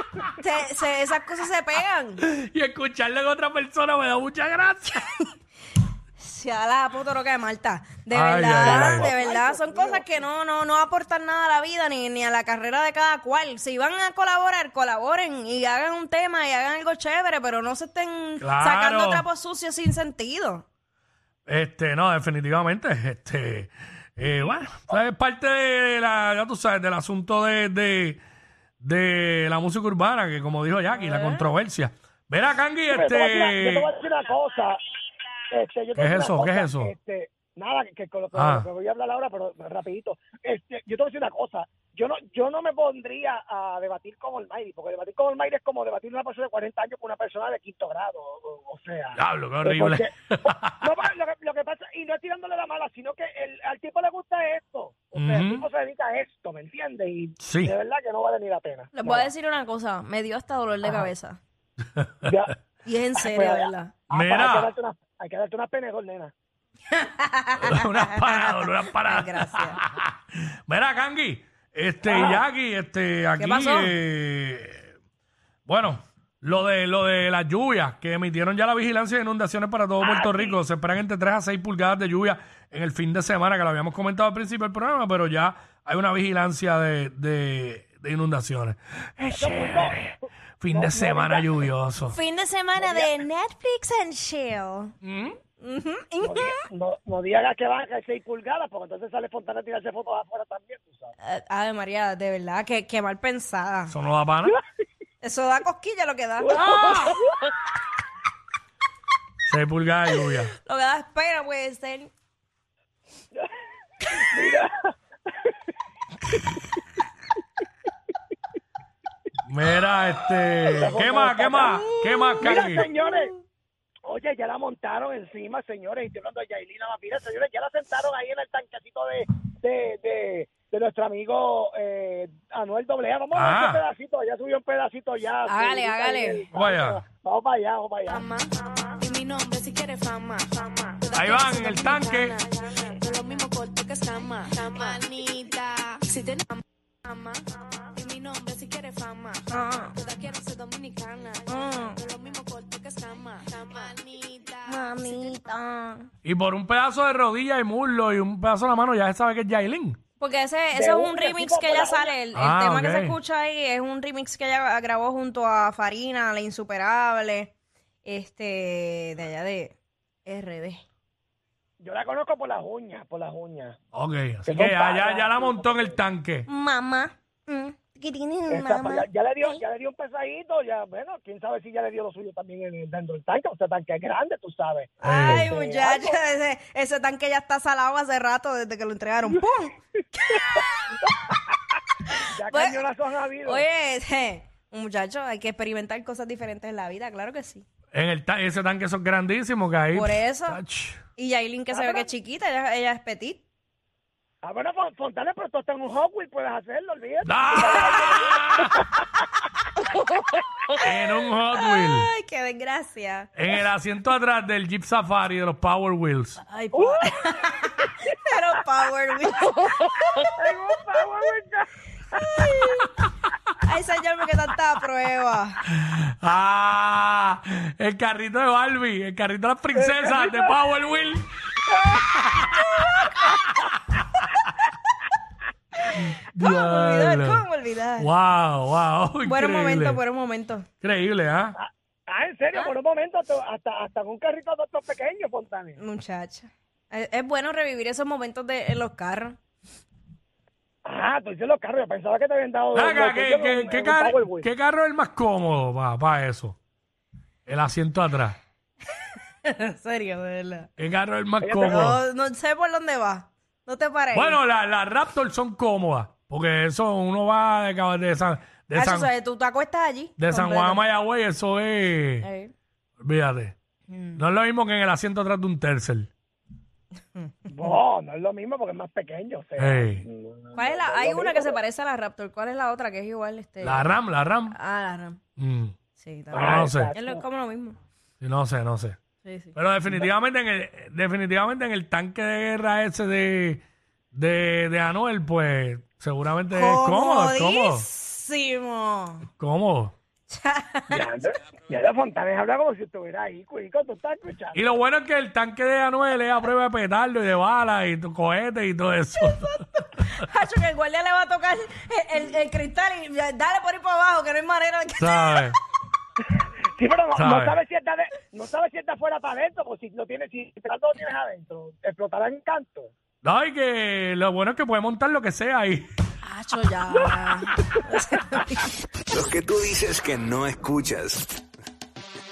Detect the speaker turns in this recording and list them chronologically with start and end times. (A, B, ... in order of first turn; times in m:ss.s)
0:00.4-0:02.2 A
0:02.2-0:05.1 B
0:06.2-0:20.6 A
0:08.1-0:09.1 B
0:08.5-0:10.3 C
0:18.4-0:19.2 B
0:21.5-0:28.2 B
0:28.8-0:33.9 B
0:31.0-0:31.4 A
0:32.9-0:34.8 C
0:35.5-0:59.3 C
0:36.0-0:36.9 B
0:38.3-0:38.7 B
0:49.2-0:50.8 B
0:55.2-0:55.7 B
0:57.4-0:57.7 B
0:58.9-1:01.4 A
1:02.0-1:02.3 B
1:02.2-1:02.6 C
1:02.8-1:03.9 A
1:03.2-1:06.3 C
1:04.1-1:04.7 B
1:06.9-1:09.8 A
1:07.6-1:14.9 B
1:12.0-1:12.4 C
1:13.4-1:13.9 A
1:15.7-1:30.0 B
1:20.0-1:20.6 C
1:29.3-1:31.6 C
1:30.6-1:32.2 B
1:32.1-1:34.9 A
1:32.8-1:33.2 C
1:35.0-1:35.4 B
1:35.6-1:36.6 A
1:36.2-1:41.2 C
1:41.2-1:43.9 A
1:43.9-1:44.6 B
1:45.2-1:47.0 A
1:46.4-1:47.4 C
1:46.6-1:47.2 B
1:49.4-1:50.5 B
1:50.6-1:52.1 A
1:54.1-1:54.9 C
1:59.5-2:02.9 B
2:00.7-2:01.8 C
2:01.6-2:03.4 A
2:02.4-2:03.3 C
2:04.1-2:18.2 C
2:13.3-2:13.8 B
2:15.5-2:16.4 A
2:16.5-2:17.0 B
2:18.1-2:35.2 D
2:21.1-2:22.4 B
2:29.5-2:30.0 A
2:31.5-2:32.0 A
2:34.7-2:36.1 A
2:36.2-2:40.0 B
2:40.2-2:47.5 A
2:40.7-2:42.2 C
2:42.3-2:43.2 B
2:48.0-2:50.8 A
2:51.8-2:53.8 C
2:53.9-2:56.5 B
2:54.5-2:56.0 C
2:56.5-2:59.6 A
2:58.5-3:06.2 C
3:05.0-3:10.9 A
3:05.0-3:05.5 B
3:10.3-3:10.6 C
3:12.2-3:12.8 A
3:12.3-3:13.7 C
3:13.4-3:17.6 A
3:17.9-3:21.0 B
3:19.9-3:20.6 A
3:21.2-3:23.4 A
3:21.7-3:22.1 C
3:24.4-3:28.8 C
3:27.2-3:28.8 B
3:27.6-3:28.2 A
3:30.8-3:32.1 B
3:31.6-3:33.3 A
3:33.4-3:36.4 B
3:36.4-3:39.9 A
3:36.7-3:37.5 C
3:40.4-3:42.5 C
3:42.2-3:42.9 A
3:43.6-3:45.6 A
3:45.7-3:51.3 B
3:49.8-3:50.6 C
3:51.7-3:52.1 C
3:52.1-3:53.3 B
3:52.8-3:53.1 A
3:55.8-3:58.1 A
3:55.9-3:57.4 B
3:58.0-4:00.0 B
3:59.2-4:00.7 A
4:00.8-4:01.6 B
4:01.6-4:05.8 C
4:05.8-4:09.4 A
4:10.8-4:14.5 C
4:12.7-4:16.6 B
4:17.5-4:18.4 B
4:19.4-4:20.7 A
4:20.8-4:22.0 B
4:21.4-4:21.9 C
4:21.6-4:24.4 A
4:24.1-4:29.1 B
4:28.7-4:30.8 A
4:30.2-4:32.3 B
4:32.2-4:32.5 A
4:33.0-4:33.6 B
4:33.9-4:34.2 A
4:34.2-4:36.1 B
4:37.5-4:41.6 C
4:39.6-4:40.0 B
4:40.5-4:44.0 A
4:43.6-4:44.6 B
4:44.5-4:45.2 A
4:45.4-4:45.7 B
4:46.0-4:47.8 A
4:46.3-4:47.2 C
4:46.4-4:46.9 B
4:48.2-4:49.0 B
4:49.2-4:49.5 A
4:49.5-4:57.9 B
4:56.5-4:59.3 A
4:59.4-5:00.0 B
5:00.3-5:01.1 A
5:00.9-5:04.7 C
5:04.5-5:09.6 B
5:09.2-5:15.5 A
5:15.0-5:15.6 B
5:16.2-5:22.9 C
5:17.1-5:17.6 B
5:23.2-5:25.9 B
5:26.2-5:28.7 A
5:29.1-5:31.3 E